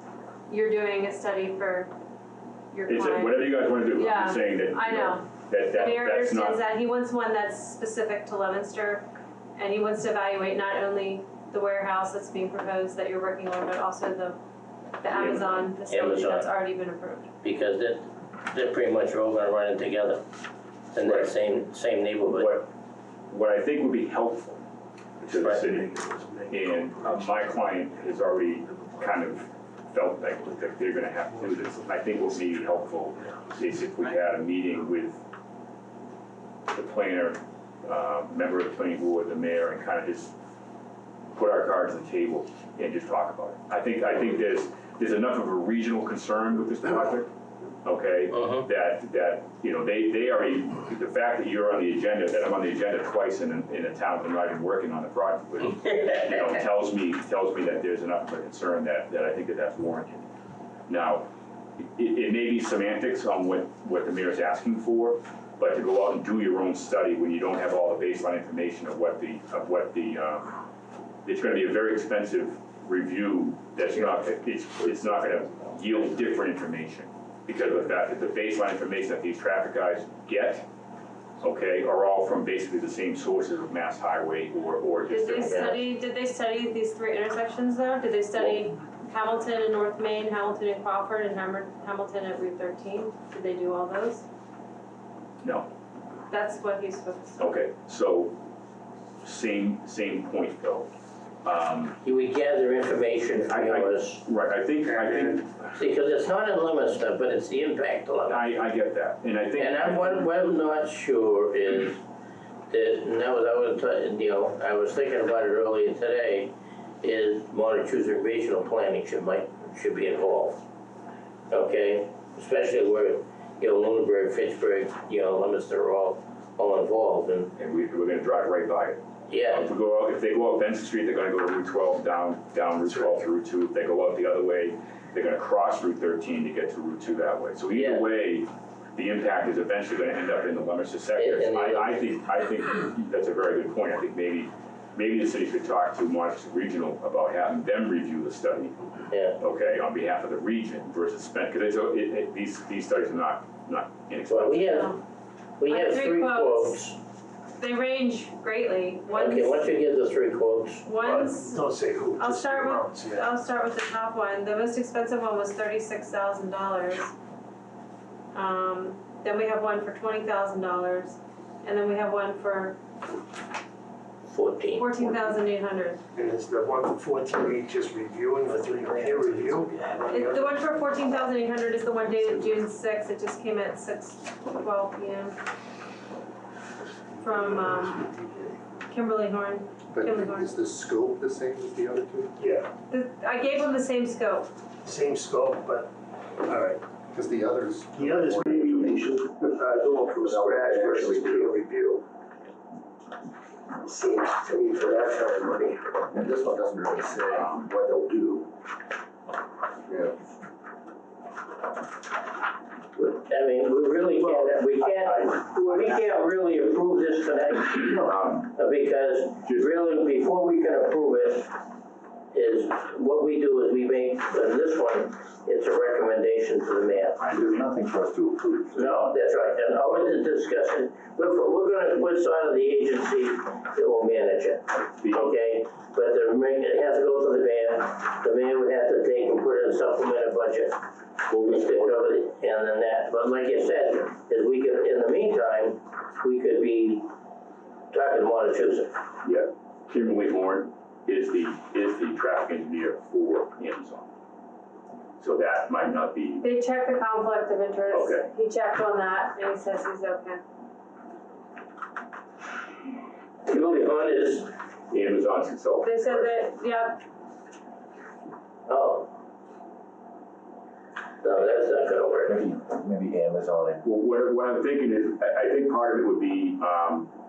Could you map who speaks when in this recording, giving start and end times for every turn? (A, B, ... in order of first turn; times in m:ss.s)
0:00.5-0:01.9 A
0:02.7-0:14.4 A
0:02.9-0:06.6 B
0:15.0-0:17.3 A
0:15.1-0:15.7 B
0:15.9-0:16.5 C
0:17.4-0:20.2 C
0:20.9-0:22.6 C
0:21.0-0:21.3 B
0:22.3-0:22.7 B
0:23.3-0:24.7 B
0:25.2-0:28.0 D
0:25.2-0:26.0 B
0:26.5-0:35.3 B
0:28.7-0:29.4 D
0:31.3-0:33.8 D
0:36.7-0:40.4 B
0:41.3-0:47.3 B
0:47.8-1:00.3 B
0:48.4-0:48.6 C
1:00.9-1:01.3 B
1:01.8-1:10.6 B
1:11.2-1:20.7 B
1:21.4-1:25.8 B
1:25.1-1:34.3 A
1:25.5-1:25.8 C
1:35.4-1:35.7 B
1:36.3-1:37.4 A
1:37.4-1:38.4 B
1:39.2-1:40.9 B
1:41.4-1:42.0 B
1:42.0-1:44.2 C
1:43.4-1:45.7 B
1:44.9-1:45.4 D
1:45.7-1:48.5 C
1:48.3-1:50.3 B
1:49.6-1:52.0 C
1:52.7-2:00.6 C
2:01.5-2:07.5 C
2:07.6-2:28.8 B
2:09.3-2:09.7 C
2:17.7-2:18.1 C
2:21.2-2:22.0 C
2:29.1-2:29.4 C
2:29.4-2:34.9 B
2:34.3-2:34.9 C
2:34.7-2:35.0 A
2:35.6-2:37.0 C
2:35.7-2:36.9 A
2:37.6-2:39.7 A
2:39.1-2:40.9 C
2:40.8-2:47.1 A
2:41.0-2:43.3 D
2:48.3-2:52.8 A
2:54.3-2:54.9 C
2:54.8-2:56.0 A
2:56.2-3:00.5 D
2:59.0-2:59.8 E
3:00.1-3:05.4 A
3:07.1-3:08.6 D
3:07.2-3:08.0 A
3:08.9-3:10.5 A
3:09.9-3:12.4 F
3:12.4-3:12.7 D
3:12.9-3:14.5 A
3:14.8-3:16.8 D
3:17.1-3:19.2 F
3:17.9-3:22.0 D
3:20.2-3:21.6 F
3:23.8-3:25.8 D
3:26.1-3:28.5 F
3:29.9-3:30.2 F
3:33.0-3:41.6 C
3:35.0-3:36.0 B
3:37.9-3:38.6 B
3:39.4-3:39.7 B
3:42.3-3:47.2 C
3:47.2-3:47.7 B
3:47.3-3:49.1 F
3:48.8-4:00.8 C
3:54.8-3:55.3 B
4:01.3-4:01.9 B
4:01.3-4:07.1 C
4:07.9-4:08.9 C
4:09.2-4:14.1 B
4:15.2-4:16.5 B
4:16.4-4:20.4 A
4:17.9-4:18.3 B
4:23.5-4:24.5 C
4:24.9-4:26.3 B
4:25.8-4:27.0 A
4:28.7-4:29.1 C
4:31.2-4:32.4 C
4:32.3-4:33.8 E
4:33.8-4:37.1 B